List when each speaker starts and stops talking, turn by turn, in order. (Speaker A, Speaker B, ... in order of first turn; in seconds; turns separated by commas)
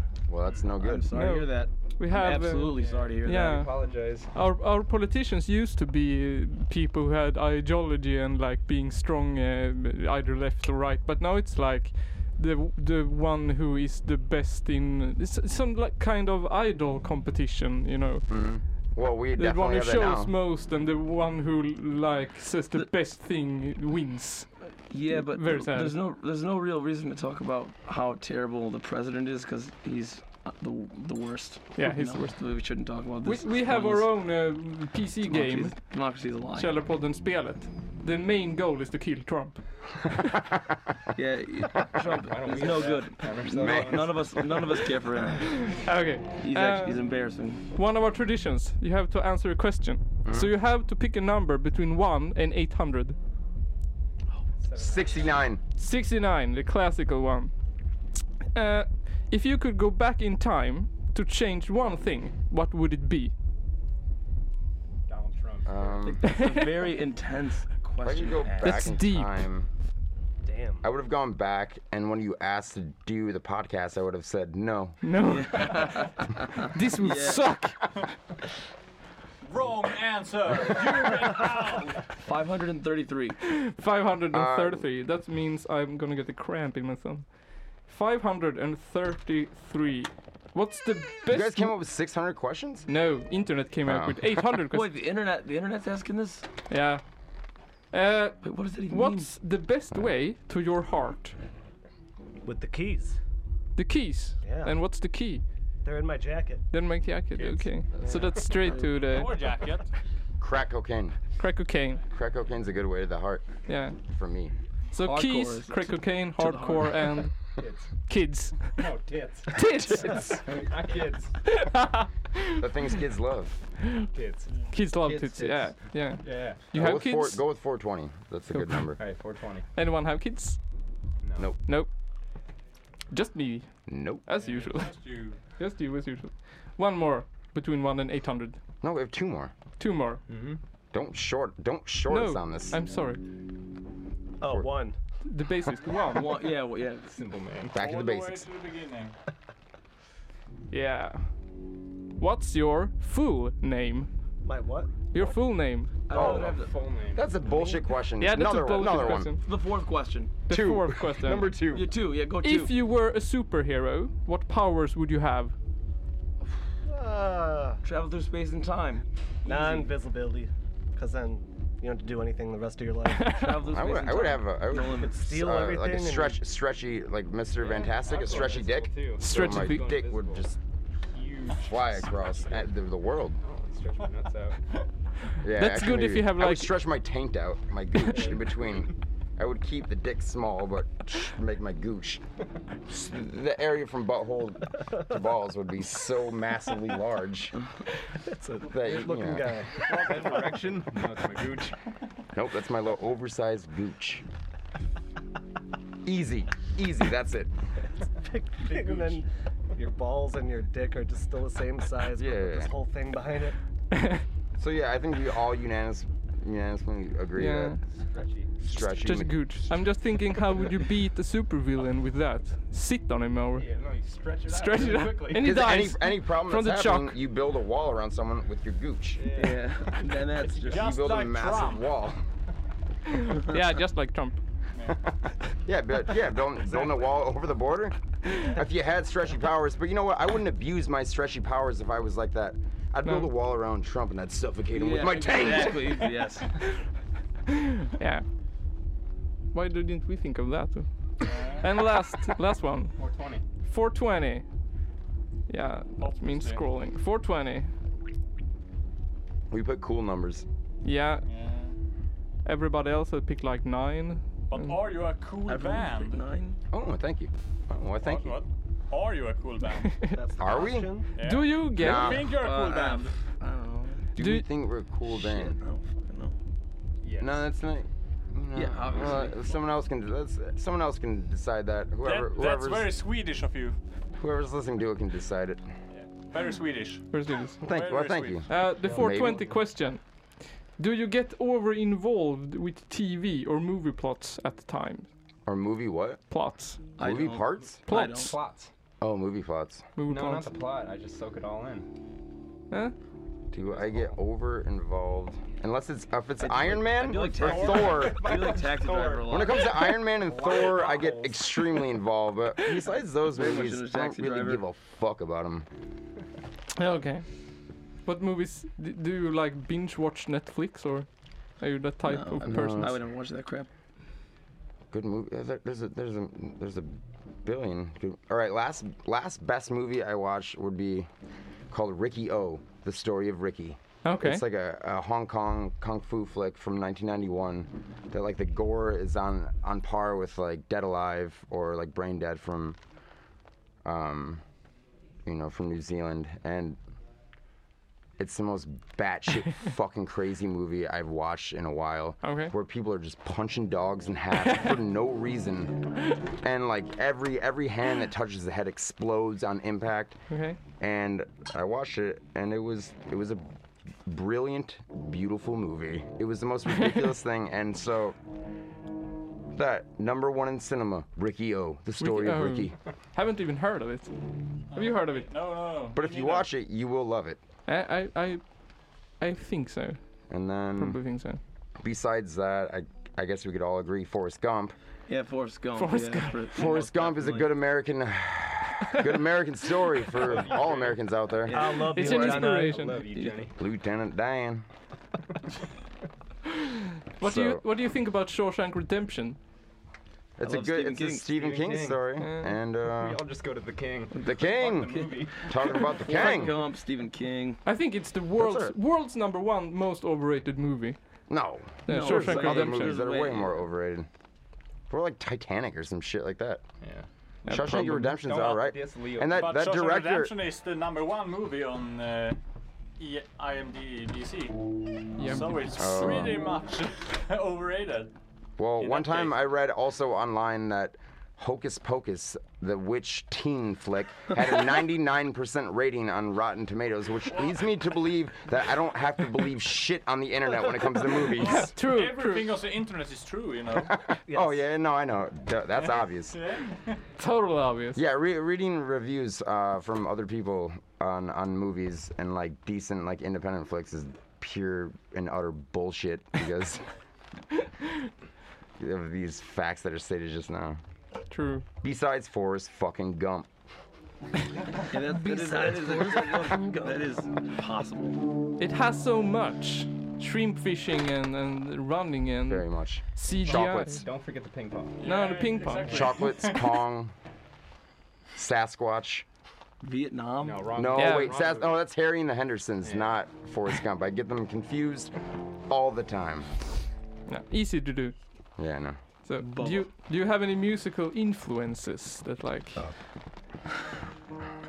Speaker A: 0.3-1.1, Speaker B: 0.8-3.6, Speaker C: 1.1-18.3, Speaker D: 2.9-4.3, Speaker A: 18.3-20.3, Speaker C: 19.4-24.5, Speaker B: 24.9-34.2, Speaker C: 25.1-26.0, Speaker C: 31.8-32.5, Speaker C: 33.2-35.9, Speaker B: 35.3-36.8, Speaker C: 36.5-39.6, Speaker B: 41.1-45.7, Speaker D: 42.0-44.5, Speaker A: 43.6-44.2, Speaker C: 45.5-47.0, Speaker B: 46.4-47.6, Speaker C: 47.7-53.2, Speaker A: 50.2-50.5, Speaker D: 54.6-55.5, Speaker A: 54.8-55.6, Speaker C: 55.8-57.5, Speaker C: 58.5-63.3, Speaker D: 65.1-66.1, Speaker A: 65.7-66.3, Speaker B: 66.0-68.9, Speaker C: 66.3-66.7, Speaker A: 68.0-69.7, Speaker C: 68.6-69.3, Speaker E: 70.4-70.9, Speaker A: 70.8-75.0, Speaker C: 75.0-78.0, Speaker B: 75.2-76.1, Speaker B: 77.0-77.5, Speaker F: 79.4-82.1, Speaker B: 82.2-83.4, Speaker C: 83.4-91.7, Speaker A: 84.3-84.9, Speaker A: 91.3-92.9, Speaker C: 92.9-94.9, Speaker A: 93.8-94.5, Speaker B: 94.7-96.5, Speaker C: 96.7-97.0, Speaker C: 97.9-101.3, Speaker B: 98.4-99.3, Speaker E: 102.4-103.2, Speaker C: 103.8-105.4, Speaker E: 104.4-104.8, Speaker E: 105.8-106.7, Speaker C: 106.7-109.4, Speaker D: 107.3-108.8, Speaker F: 109.0-109.9, Speaker A: 110.4-111.2, Speaker C: 111.4-112.0, Speaker A: 112.1-113.5, Speaker C: 113.7-114.0, Speaker A: 114.0-114.5, Speaker C: 114.9-117.3, Speaker B: 115.0-117.1, Speaker D: 117.6-117.9, Speaker C: 118.0-118.8, Speaker D: 118.8-119.6, Speaker C: 119.5-120.5, Speaker D: 120.3-121.3, Speaker C: 121.4-122.7, Speaker A: 122.6-123.6, Speaker D: 124.1-126.9, Speaker C: 124.7-127.4, Speaker A: 126.7-129.0, Speaker C: 128.5-128.9, Speaker D: 129.0-129.7, Speaker C: 129.7-130.6, Speaker D: 131.2-131.5, Speaker C: 133.1-135.0, Speaker A: 133.9-134.2, Speaker F: 134.3-135.4, Speaker C: 135.6-138.6, Speaker A: 138.8-139.5, Speaker C: 139.8-140.2, Speaker D: 140.3-140.6, Speaker A: 140.9-142.8, Speaker C: 142.1-143.2, Speaker E: 144.4-145.0, Speaker A: 144.4-144.7, Speaker C: 145.2-146.3, Speaker B: 146.1-147.2, Speaker D: 147.1-147.8, Speaker A: 147.7-148.5, Speaker F: 147.8-149.2, Speaker C: 150.7-151.3, Speaker C: 152.2-154.1, Speaker E: 154.4-154.9, Speaker C: 155.1-155.9, Speaker B: 156.1-156.7, Speaker D: 156.1-157.7, Speaker A: 156.1-156.5, Speaker A: 157.1-159.3, Speaker C: 158.2-159.4, Speaker B: 159.4-160.3, Speaker C: 160.5-161.5, Speaker A: 160.5-161.9, Speaker B: 161.7-162.7, Speaker C: 162.4-165.5, Speaker E: 166.8-167.8, Speaker B: 167.8-169.9, Speaker E: 169.4-173.4, Speaker C: 173.1-173.5, Speaker B: 173.3-175.3, Speaker A: 173.7-180.6, Speaker E: 174.8-176.4, Speaker D: 177.6-182.7, Speaker C: 179.2-179.9, Speaker A: 181.6-183.4, Speaker D: 183.4-184.6, Speaker A: 185.4-192.2, Speaker C: 185.5-186.7, Speaker D: 188.1-188.6, Speaker A: 192.9-197.6, Speaker E: 198.2-200.2, Speaker A: 198.7-199.6, Speaker D: 198.9-201.8, Speaker F: 199.8-200.8, Speaker A: 202.3-204.2, Speaker A: 206.0-207.5, Speaker E: 208.2-213.6, Speaker D: 208.6-209.2, Speaker A: 212.1-212.7, Speaker C: 213.9-214.2, Speaker A: 214.6-217.8, Speaker C: 217.3-217.8, Speaker D: 217.9-218.6, Speaker A: 218.6-219.5, Speaker C: 218.8-223.7, Speaker D: 223.5-225.6, Speaker C: 224.5-227.2, Speaker A: 225.3-229.2, Speaker D: 229.1-230.9, Speaker B: 229.3-230.9, Speaker F: 230.7-231.9, Speaker A: 230.7-232.2, Speaker C: 233.1-234.4, Speaker A: 235.7-246.0, Speaker C: 243.0-243.3, Speaker B: 244.7-246.5, Speaker C: 247.5-248.2, Speaker C: 249.5-250.9, Speaker F: 251.2-251.7, Speaker C: 251.6-252.9, Speaker D: 252.9-253.4, Speaker C: 253.6-254.4, Speaker C: 255.5-257.7, Speaker F: 256.0-256.6, Speaker A: 259.5-260.4, Speaker C: 260.8-261.2, Speaker F: 261.2-261.7, Speaker C: 262.4-264.7, Speaker F: 264.5-266.2, Speaker B: 265.4-266.6, Speaker A: 266.7-268.4, Speaker F: 268.0-270.1, Speaker E: 270.1-271.1, Speaker A: 270.4-270.9, Speaker F: 271.1-273.1, Speaker C: 271.2-272.2, Speaker A: 271.8-272.3, Speaker B: 272.0-274.1, Speaker A: 274.1-275.6, Speaker C: 274.2-274.4, Speaker B: 275.1-276.4, Speaker D: 277.0-277.4, Speaker A: 277.2-282.9, Speaker B: 278.5-279.6, Speaker F: 282.0-283.8, Speaker A: 284.2-285.7, Speaker F: 285.9-287.1, Speaker C: 287.1-287.6, Speaker F: 287.6-288.5, Speaker A: 287.6-289.4, Speaker C: 288.5-290.0, Speaker C: 290.8-295.1, Speaker A: 295.4-296.2, Speaker C: 296.3-296.8, Speaker A: 297.0-297.8, Speaker B: 297.0-298.4, Speaker C: 297.9-298.3, Speaker D: 297.9-298.7, Speaker A: 299.0-299.9, Speaker C: 299.9-300.5, Speaker D: 300.0-301.9, Speaker A: 303.5-308.4, Speaker D: 303.6-304.2, Speaker B: 306.4-309.8, Speaker D: 307.1-311.6, Speaker A: 309.3-315.7, Speaker B: 313.2-314.6, Speaker C: 316.7-317.2, Speaker C: 318.0-321.1, Speaker C: 321.6-322.9, Speaker B: 322.0-323.7, Speaker A: 322.4-323.0, Speaker A: 324.9-331.1, Speaker A: 331.7-342.8, Speaker C: 334.0-334.4, Speaker A: 343.8-344.4, Speaker A: 345.2-346.8, Speaker A: 348.2-355.8, Speaker C: 352.2-352.5, Speaker A: 356.4-360.2, Speaker C: 360.3-360.6, Speaker A: 360.8-363.4, Speaker A: 364.1-368.2, Speaker A: 369.5-372.8, Speaker C: 372.0-374.1, Speaker C: 374.7-375.3, Speaker F: 374.7-376.5, Speaker A: 375.9-377.4, Speaker C: 377.7-378.4, Speaker C: 379.2-380.0, Speaker A: 380.3-381.0, Speaker C: 380.8-381.4, Speaker A: 381.8-384.8, Speaker B: 385.1-387.5, Speaker C: 385.8-386.5, Speaker A: 386.5-391.9, Speaker D: 390.2-391.0, Speaker B: 391.5-392.4, Speaker E: 391.5-392.9, Speaker C: 391.9-393.0, Speaker D: 392.2-393.6, Speaker B: 393.1-393.4, Speaker A: 393.6-394.6, Speaker C: 396.5-399.4, Speaker A: 397.2-397.6, Speaker A: 400.4-403.2, Speaker B: 400.4-401.3, Speaker D: 401.2-402.1, Speaker C: 402.2-402.5, Speaker D: 402.8-405.7, Speaker A: 404.2-406.6, Speaker B: 405.8-407.6, Speaker C: 407.6-411.0, Speaker A: 408.4-408.7, Speaker A: 411.3-414.1, Speaker C: 411.9-412.9, Speaker B: 411.9-413.6, Speaker A: 414.9-416.6, Speaker D: 416.8-419.8, Speaker C: 417.4-418.2, Speaker A: 417.5-420.3, Speaker F: 419.3-422.4, Speaker F: 423.0-424.6, Speaker C: 425.2-426.4, Speaker F: 425.2-428.1, Speaker A: 425.8-426.5, Speaker A: 428.6-441.7, Speaker F: 428.8-429.3, Speaker F: 437.3-437.6, Speaker F: 441.2-444.0, Speaker C: 441.4-442.5, Speaker A: 443.8-446.4, Speaker E: 444.3-444.6, Speaker F: 446.3-447.0, Speaker C: 447.2-448.0, Speaker A: 447.9-456.8, Speaker A: 458.8-460.8, Speaker C: 461.3-461.6, Speaker A: 461.8-463.5, Speaker B: 464.9-468.2, Speaker C: 468.6-474.0, Speaker A: 472.5-474.1, Speaker D: 473.4-475.0, Speaker F: 475.0-476.8, Speaker C: 475.0-476.2, Speaker A: 475.9-477.1, Speaker A: 478.4-479.2, Speaker B: 479.8-480.8, Speaker D: 480.4-481.8, Speaker A: 480.7-485.1, Speaker C: 480.9-481.3, Speaker D: 482.8-483.1, Speaker A: 485.7-486.5, Speaker C: 487.3-488.1, Speaker A: 488.6-489.0, Speaker C: 489.2-492.9, Speaker B: 489.4-489.9